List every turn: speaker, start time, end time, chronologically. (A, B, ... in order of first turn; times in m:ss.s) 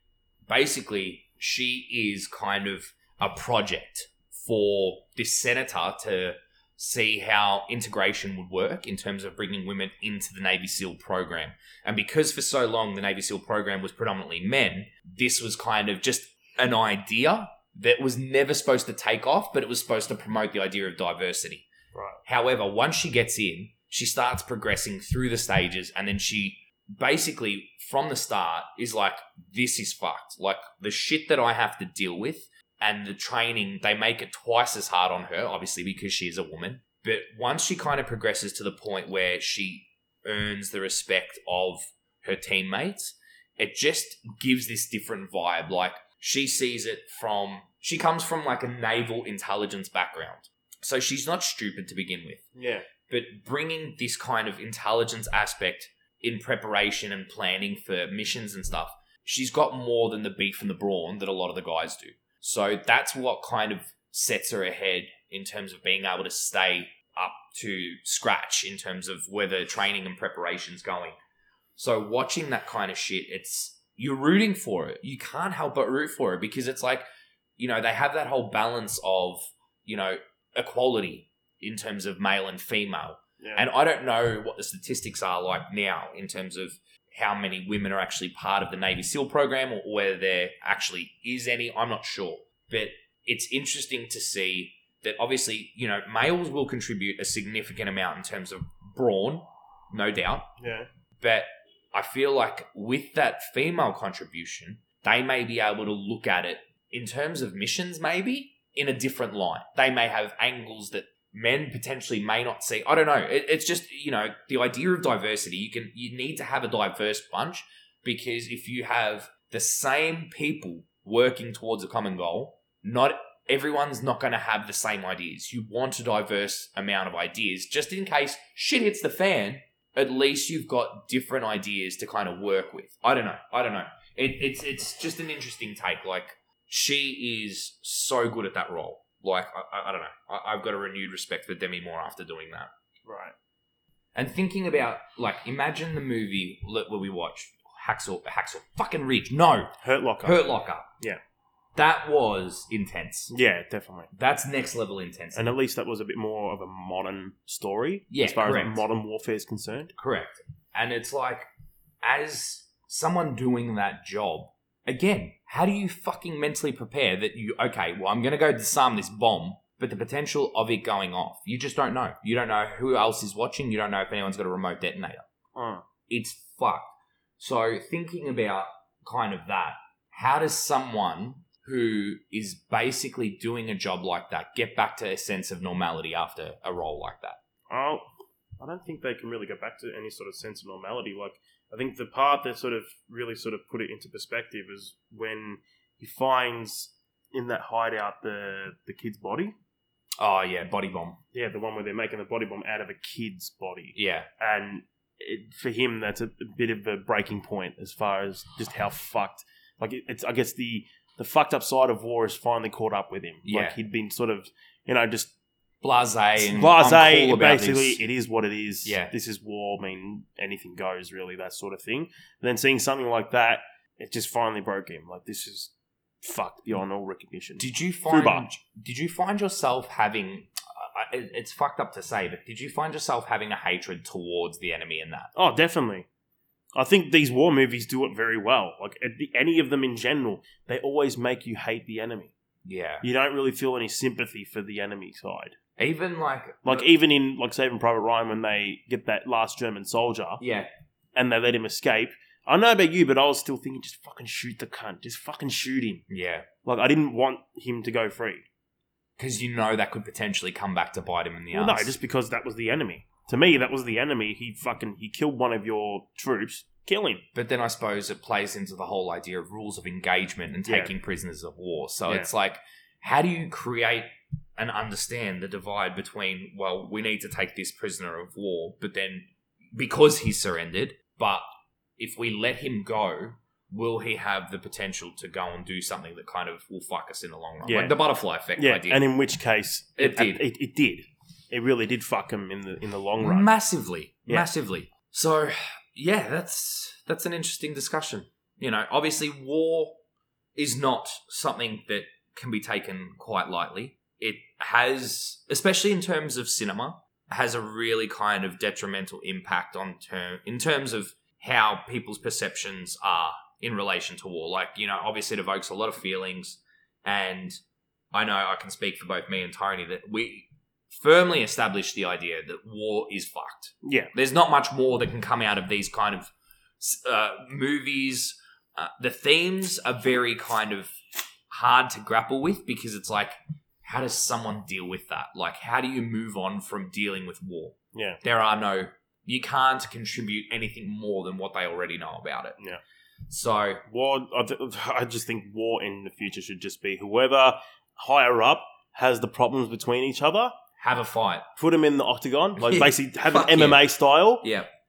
0:00.5-0:21.7 A
0:21.9-0:22.2 B
0:22.2-0:52.5 A
0:52.6-0:52.9 B
0:53.1-1:11.2 A
1:11.8-1:17.0 A
1:17.6-1:40.5 A
1:23.4-1:23.7 B
1:40.6-1:40.9 B
1:41.2-2:22.7 A
2:23.0-2:23.3 B
2:24.2-2:30.9 A
2:29.8-2:30.5 B
2:31.8-2:33.3 A
2:33.3-2:34.1 B
2:34.1-2:35.5 A
2:35.4-2:39.9 B
2:38.1-2:38.8 A
2:40.0-2:41.5 A
2:42.0-2:55.2 A
2:55.6-2:55.8 B
2:56.1-3:07.4 A
3:07.7-3:08.0 B
3:08.6-3:19.6 B
3:20.2-3:21.2 A
3:21.3-3:35.3 B
3:24.0-3:24.3 A
3:33.4-3:33.8 A
3:35.8-3:38.0 A
3:36.4-3:48.5 B
3:38.8-3:39.1 A
3:47.6-3:55.3 A
3:55.4-3:56.1 B
3:56.8-4:02.3 B
4:02.6-4:03.0 A
4:03.0-4:05.6 B
4:05.8-4:06.9 A
4:06.6-4:10.4 B
4:10.4-4:10.7 A
4:11.2-4:16.0 B
4:16.1-4:16.5 A
4:16.6-4:18.5 B
4:19.2-4:21.9 A
4:21.5-4:27.2 B
4:27.4-4:41.4 A
4:30.7-4:30.9 B
4:42.0-4:49.1 A
4:47.6-4:48.0 B
4:48.6-4:53.5 B
4:50.0-4:50.4 A
4:53.2-5:00.0 A
5:00.6-5:17.6 A
5:18.1-5:30.9 A
5:23.8-5:24.1 B
5:31.5-5:42.6 A
5:37.9-5:38.2 B
5:43.3-5:43.8 A
5:43.9-5:50.5 B
5:50.8-5:51.5 A
5:51.6-5:54.5 B
5:52.6-5:53.9 A
5:54.4-5:54.7 A